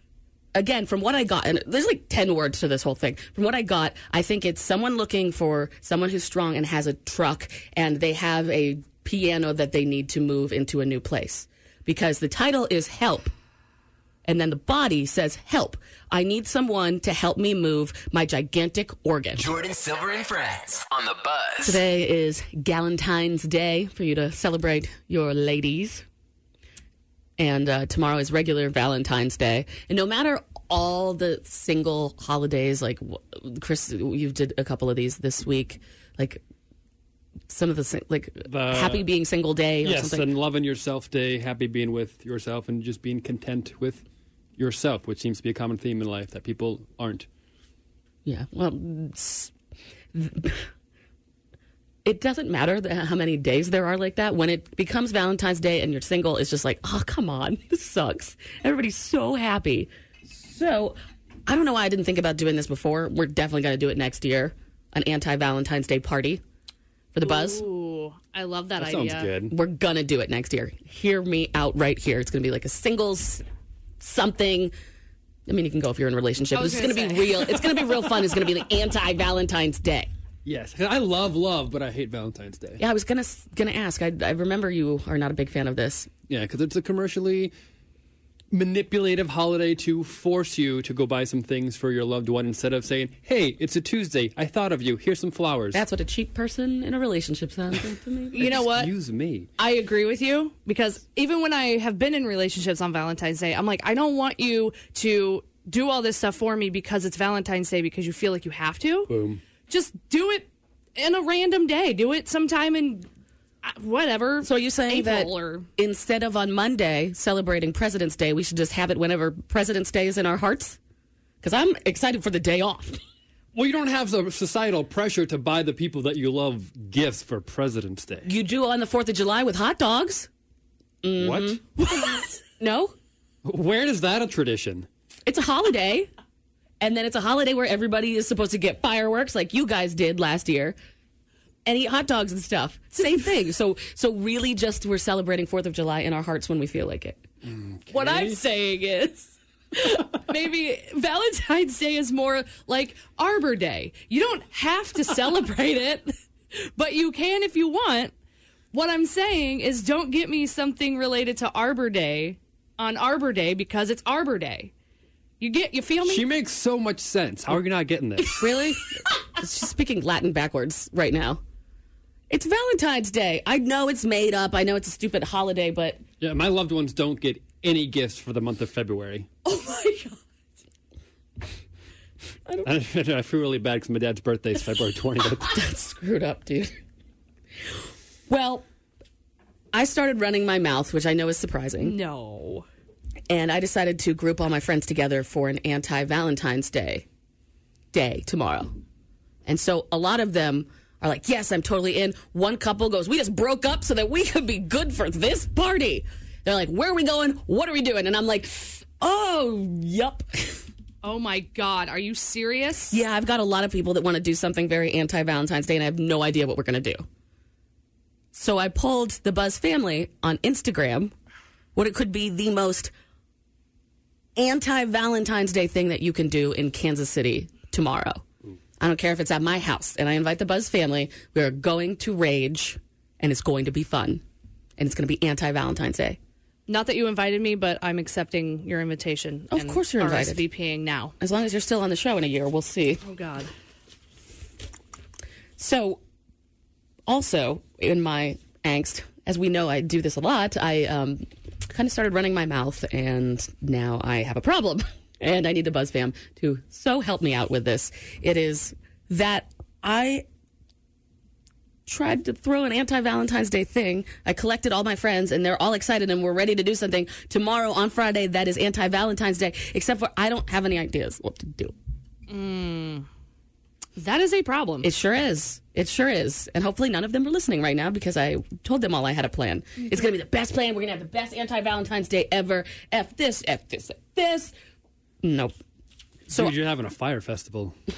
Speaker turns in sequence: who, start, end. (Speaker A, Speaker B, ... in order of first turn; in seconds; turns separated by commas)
Speaker A: 0.6-13.3, Speaker A: 14.3-19.5, Speaker B: 19.4-21.8, Speaker A: 21.6-26.1, Speaker A: 27.4-36.4, Speaker A: 37.5-40.3, Speaker C: 38.5-39.1, Speaker C: 39.8-44.0, Speaker C: 44.6-47.3, Speaker A: 48.2-49.5, Speaker A: 50.1-50.6, Speaker A: 52.0-66.4, Speaker A: 67.1-67.6, Speaker D: 67.2-69.3, Speaker C: 68.8-69.5, Speaker A: 69.5-73.4, Speaker A: 74.0-74.7, Speaker A: 75.5-80.1, Speaker D: 76.5-77.6, Speaker C: 80.5-82.8, Speaker A: 82.8-86.1, Speaker C: 86.3-87.5, Speaker C: 88.5-95.8, Speaker A: 95.7-98.6, Speaker D: 98.4-98.9, Speaker C: 98.4-99.5, Speaker D: 99.6-109.1, Speaker C: 109.1-109.4, Speaker D: 109.7-113.1, Speaker D: 113.6-115.7, Speaker A: 114.4-120.8, Speaker A: 121.4-123.0, Speaker C: 123.5-128.3, Speaker A: 128.2-130.3, Speaker A: 131.0-132.9, Speaker C: 131.2-131.6, Speaker C: 133.4-134.9, Speaker A: 135.3-136.1, Speaker A: 136.8-140.8, Speaker A: 141.7-147.2, Speaker C: 147.5-148.4, Speaker D: 147.9-158.1, Speaker D: 158.7-164.7, Speaker D: 165.4-166.3, Speaker C: 166.1-168.5, Speaker A: 168.4-171.4, Speaker A: 172.3-176.0, Speaker C: 176.2-179.3, Speaker A: 179.5-180.2, Speaker C: 182.6-185.6, Speaker A: 185.5-186.8, Speaker A: 188.3-188.7, Speaker A: 189.7-192.0, Speaker D: 191.8-192.7, Speaker A: 193.3-197.1, Speaker A: 197.9-198.7, Speaker A: 199.5-210.6, Speaker D: 211.0-213.0, Speaker A: 212.9-217.1, Speaker A: 218.3-221.1, Speaker A: 221.8-222.9, Speaker A: 224.4-228.2, Speaker A: 228.8-234.2, Speaker A: 234.8-236.2, Speaker D: 236.7-241.2, Speaker A: 239.5-240.4, Speaker A: 241.2-243.0, Speaker D: 243.0-243.5, Speaker A: 245.6-246.0, Speaker A: 247.1-260.2, Speaker A: 261.9-271.8, Speaker D: 272.3-273.1, Speaker D: 274.0-274.9, Speaker A: 274.8-284.5, Speaker A: 285.2-285.6, Speaker C: 286.3-287.8